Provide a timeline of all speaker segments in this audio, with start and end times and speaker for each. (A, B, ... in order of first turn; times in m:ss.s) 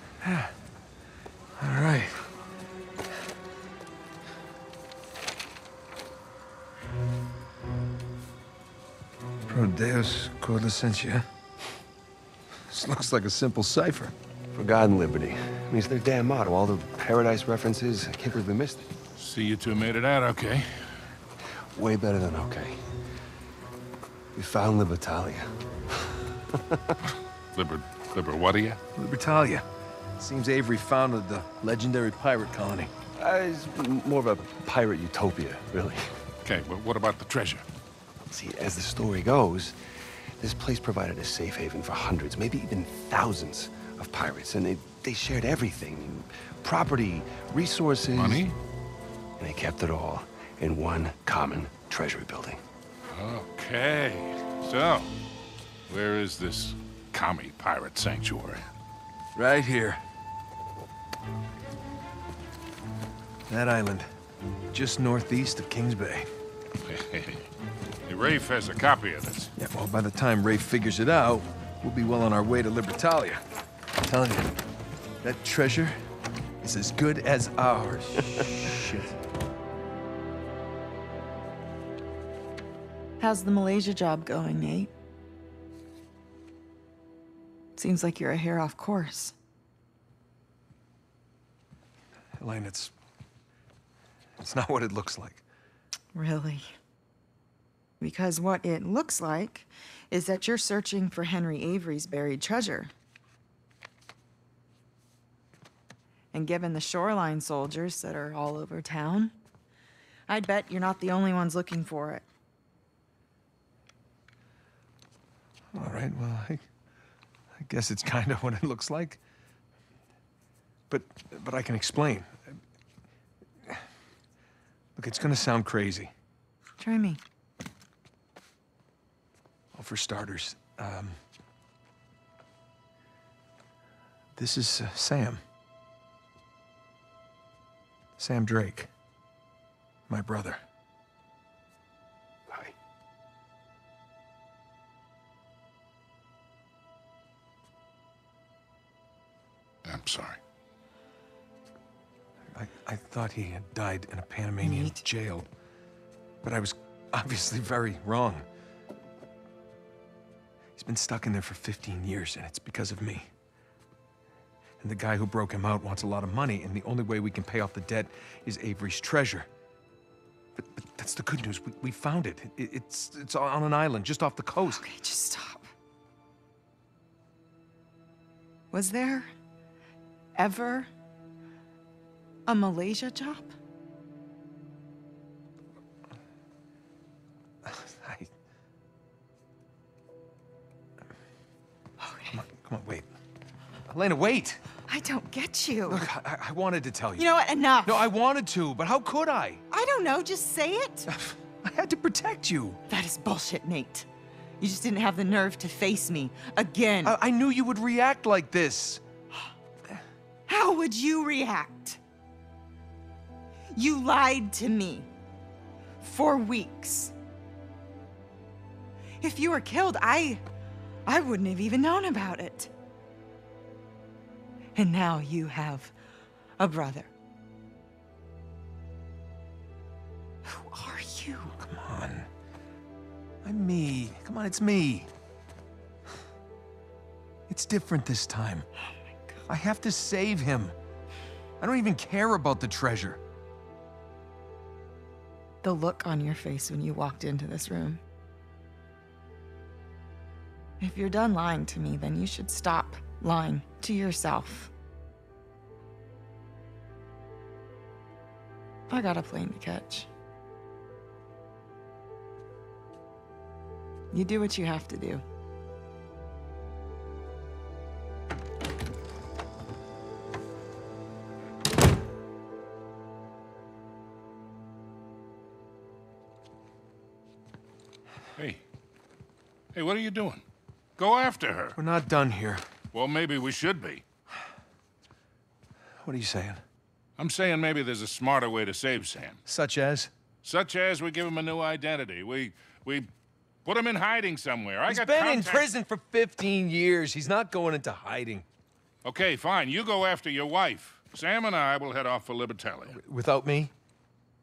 0:00.2-0:00.5 A
0:01.6-0:02.3 A
0:09.5-0:11.3 A
0:12.7-0:14.1 A
0:14.5-0:18.9 B
0:19.2-0:21.1 C
0:21.5-0:22.8 B
0:24.4-0:25.5 B
0:26.1-0:26.8 B
0:27.6-0:28.8 C
0:29.0-0:29.6 A
0:30.2-0:32.9 A
0:33.2-0:36.1 B
0:36.4-0:37.6 C
0:38.3-0:39.8 B
0:40.4-0:48.4 B
0:48.2-0:48.6 C
0:49.4-0:52.6 B
0:53.1-0:55.1 C
0:55.9-0:58.7 C
0:59.4-1:00.0 A
1:03.5-1:04.1 A
1:04.7-1:06.3 A
1:06.9-1:07.5 C
1:08.1-1:09.5 C
1:09.6-1:13.4 A
1:14.0-1:14.6 A
1:15.2-1:16.0 A
1:16.6-1:19.2 A
1:23.2-1:24.9 D
1:27.8-1:29.4 D
1:32.4-1:32.9 A
1:34.4-1:35.4 A
1:36.1-1:36.7 D
1:38.0-1:42.9 D
1:46.3-1:49.4 D
1:50.3-1:52.2 D
1:55.7-1:56.7 A
1:57.5-1:59.2 A
2:00.9-2:02.6 A
2:05.0-2:06.1 A
2:06.8-2:07.2 D
2:09.7-2:11.2 A
2:14.4-2:15.4 A
2:18.2-2:18.9 A
2:20.1-2:20.6 A
2:29.8-2:30.4 C
2:32.5-2:35.5 A
2:34.6-2:35.0 D
2:36.4-2:38.5 A
2:40.8-2:43.3 A
2:44.8-2:49.5 A
2:50.6-2:54.8 A
2:54.6-2:55.7 D
2:58.7-2:59.3 D
3:00.4-3:00.9 D
3:02.5-3:03.5 D
3:07.6-3:08.3 A
3:12.0-3:12.4 D
3:12.3-3:13.1 A
3:13.9-3:14.6 A
3:14.9-3:16.1 D
3:15.9-3:17.3 A
3:17.2-3:18.1 D
3:17.8-3:19.6 A
3:19.7-3:21.1 D
3:21.1-3:22.8 A
3:22.9-3:24.1 D
3:24.6-3:27.2 D
3:27.0-3:29.0 A
3:30.5-3:32.0 D
3:33.7-3:35.1 D
3:36.0-3:37.2 D
3:39.2-3:40.4 D
3:41.1-3:42.7 D
3:44.8-3:46.0 D
3:46.6-3:47.1 D
3:50.4-3:51.6 D
3:51.6-3:52.3 A
3:53.4-3:55.1 A
3:57.5-3:58.7 A
3:58.8-3:59.4 D
3:59.5-4:00.8 A
4:01.6-4:03.2 A
4:05.6-4:08.0 D
4:10.8-4:14.7 D
4:18.9-4:20.1 D
4:24.1-4:25.2 D
4:38.4-4:38.6 C
4:39.7-4:40.4 C
4:41.0-4:41.8 C
4:41.8-4:42.6 A
4:42.9-4:44.0 C
4:46.0-4:46.6 A
4:47.2-4:49.4 C
4:49.5-4:50.1 A
4:50.4-4:53.1 C
4:53.6-4:55.7 C
4:54.9-4:58.5 A
4:59.0-5:03.0 C
5:02.9-5:03.7 A